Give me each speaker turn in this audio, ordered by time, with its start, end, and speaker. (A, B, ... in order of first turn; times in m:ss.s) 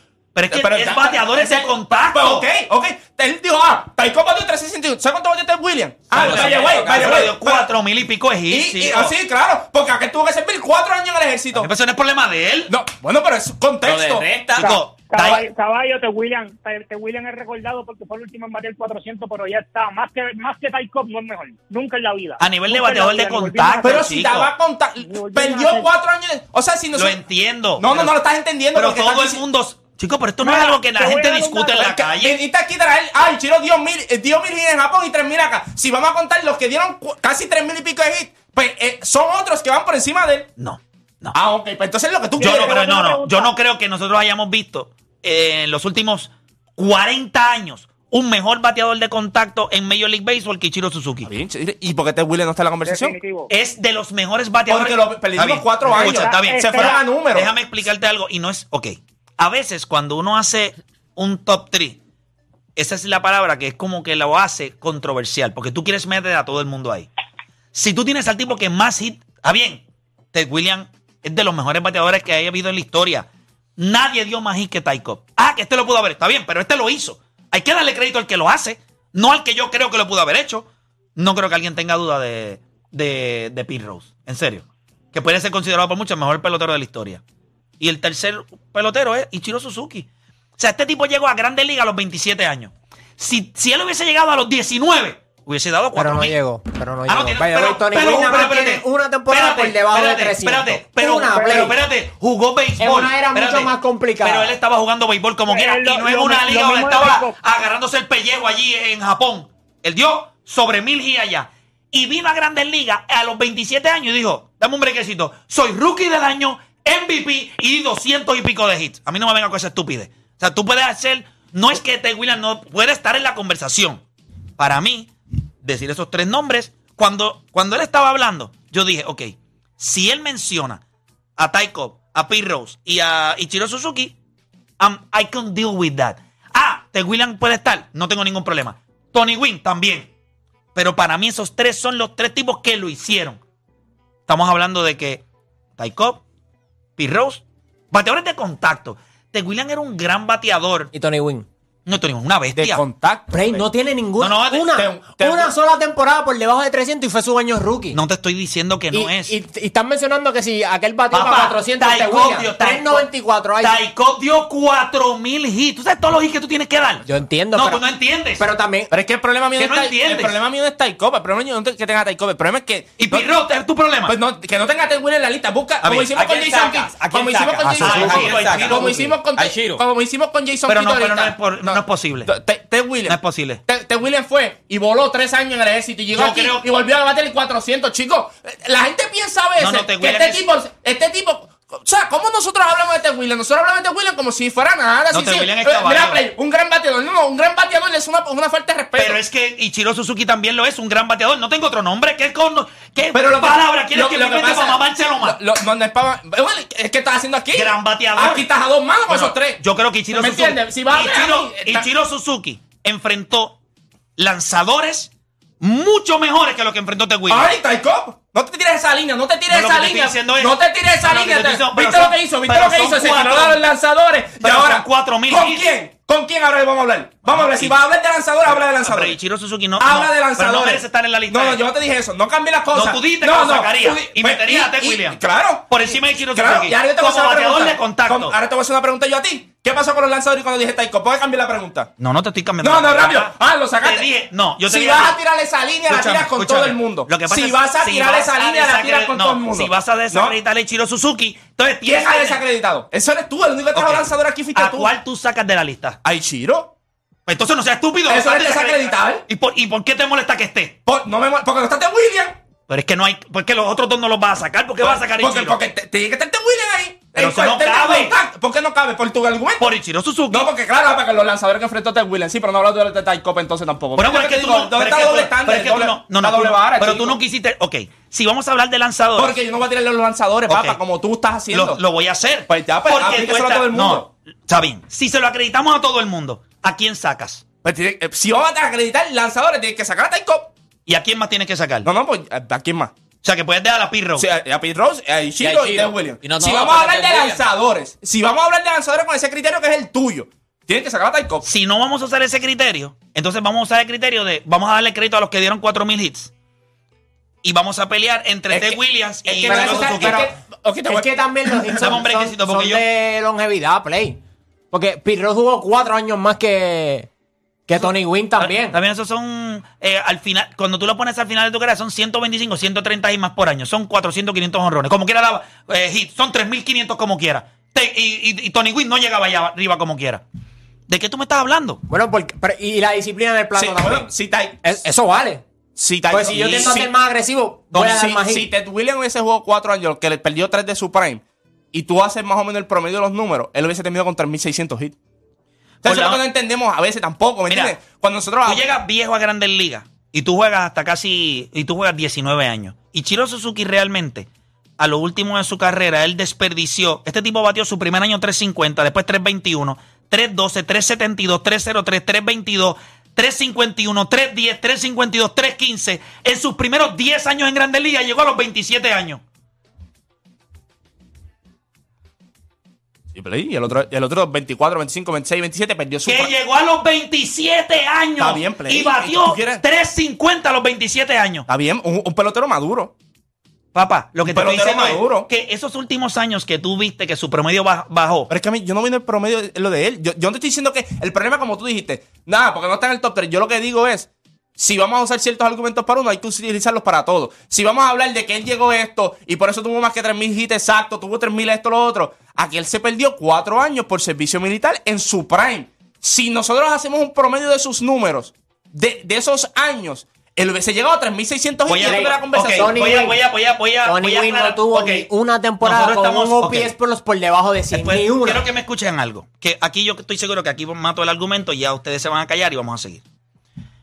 0:00.3-0:02.5 A
0:00.5-0:07.7 B
0:06.1-0:07.2 C
0:06.1-0:09.1 A
0:08.5-0:11.7 B
0:11.5-0:12.7 A
0:12.7-0:14.3 B
0:13.8-0:14.7 C
0:14.6-0:24.1 D
0:14.6-0:15.4 A
0:22.4-0:24.5 A
0:23.8-0:27.2 B
0:25.0-0:25.9 D
0:27.0-0:28.1 A
0:27.8-0:29.4 B
0:28.7-0:32.4 A
0:30.4-0:31.9 D
0:31.8-0:40.5 B
0:40.6-0:41.4 A
0:41.3-0:42.8 B
0:42.4-0:43.5 D
0:42.4-0:51.3 A
0:51.2-0:53.2 B
0:52.8-0:53.5 D
0:53.5-1:02.0 A
0:54.7-0:57.5 B
0:55.8-0:57.0 D
1:02.8-1:07.1 A
1:07.7-1:13.2 A
1:13.8-1:27.2 A
1:27.8-1:30.1 A
1:30.6-1:36.3 A
1:36.0-1:41.7 E
1:37.1-2:04.0 A
1:41.3-1:41.7 D
1:42.8-1:44.5 E
1:45.5-1:47.4 D
2:04.6-2:05.1 A
2:05.6-2:10.8 A
2:11.4-2:14.1 A
2:14.8-2:20.1 A
2:20.7-2:23.4 A
2:24.3-2:25.2 A
2:25.8-2:26.2 A
2:27.0-2:30.9 A
2:30.9-2:31.5 E
2:31.8-2:32.8 A
2:32.5-2:33.6 B
2:33.3-2:38.0 E
2:34.2-2:34.8 A
2:34.7-2:35.5 B
2:37.9-2:39.3 A
2:38.9-2:43.8 E
2:41.1-2:43.1 A
2:43.6-2:48.4 A
2:47.0-2:47.8 E
2:48.4-2:48.9 E
2:48.9-2:53.3 B
2:49.6-2:50.4 A
2:53.0-2:54.2 A
2:54.0-3:19.2 B
2:55.8-2:56.1 A
2:56.1-2:59.8 C
2:57.8-2:59.0 A
3:00.7-3:02.3 A
3:03.1-3:03.6 A
3:06.1-3:06.6 A
3:09.6-3:10.4 A
3:15.1-3:16.2 A
3:19.0-3:25.4 A
3:23.1-3:29.6 B
3:27.5-3:28.5 A
3:29.1-3:33.6 A
3:30.1-3:31.9 B
3:34.2-3:35.1 A
3:35.6-3:37.5 A
3:37.3-3:49.2 B
3:39.5-3:43.6 A
3:44.4-3:45.6 A
3:47.2-3:47.8 A
3:48.5-3:51.6 A
3:49.8-4:01.9 B
3:52.7-3:58.4 A
4:02.0-4:05.2 A
4:02.6-4:04.1 B
4:04.6-4:10.4 B
4:05.9-4:12.4 A
4:11.8-4:14.9 B
4:13.7-4:16.0 A
4:16.0-4:16.7 B
4:17.2-4:20.8 A
4:18.1-4:19.2 B
4:20.8-4:22.4 B
4:22.7-4:25.6 A
4:24.8-4:29.7 B
4:27.1-4:28.2 A
4:29.6-4:30.5 A
4:30.3-4:37.2 B
4:34.0-4:39.3 A
4:39.2-4:41.8 B
4:40.5-4:40.8 A
4:41.5-4:47.4 A
4:42.5-4:44.1 B
4:47.6-4:50.5 B
4:50.9-4:51.9 A
4:51.8-4:52.9 B
4:53.2-4:54.3 A
4:54.2-5:01.4 B
4:55.4-4:57.4 C
5:01.4-5:06.3 A
5:07.4-5:10.3 A
5:08.5-5:11.9 B
5:09.4-5:10.3 E
5:10.8-5:14.2 E
5:11.8-5:12.8 A
5:14.7-5:17.1 E
5:17.7-5:18.8 E
5:17.8-5:30.2 A
5:30.9-5:31.8 A
5:31.9-5:34.1 E
5:33.5-5:34.6 B
5:34.6-5:35.4 E
5:35.8-5:36.9 B
5:36.1-5:38.5 E
5:36.2-5:36.9 A
5:37.7-5:41.2 B
5:41.7-5:45.0 B
5:45.8-5:46.2 A
5:45.8-5:48.6 B
5:47.5-5:47.8 A
5:48.4-5:54.3 A
5:54.8-6:09.2 A
6:13.1-6:16.3 B
6:16.0-6:21.5 A
6:18.2-6:19.6 B
6:21.5-6:22.9 B
6:23.7-6:28.3 A
6:24.2-6:25.3 B
6:28.3-6:52.8 B
6:51.7-6:55.1 A
6:51.8-6:53.2 E
6:53.8-6:58.5 E
6:55.6-6:56.7 A
6:57.7-7:03.0 A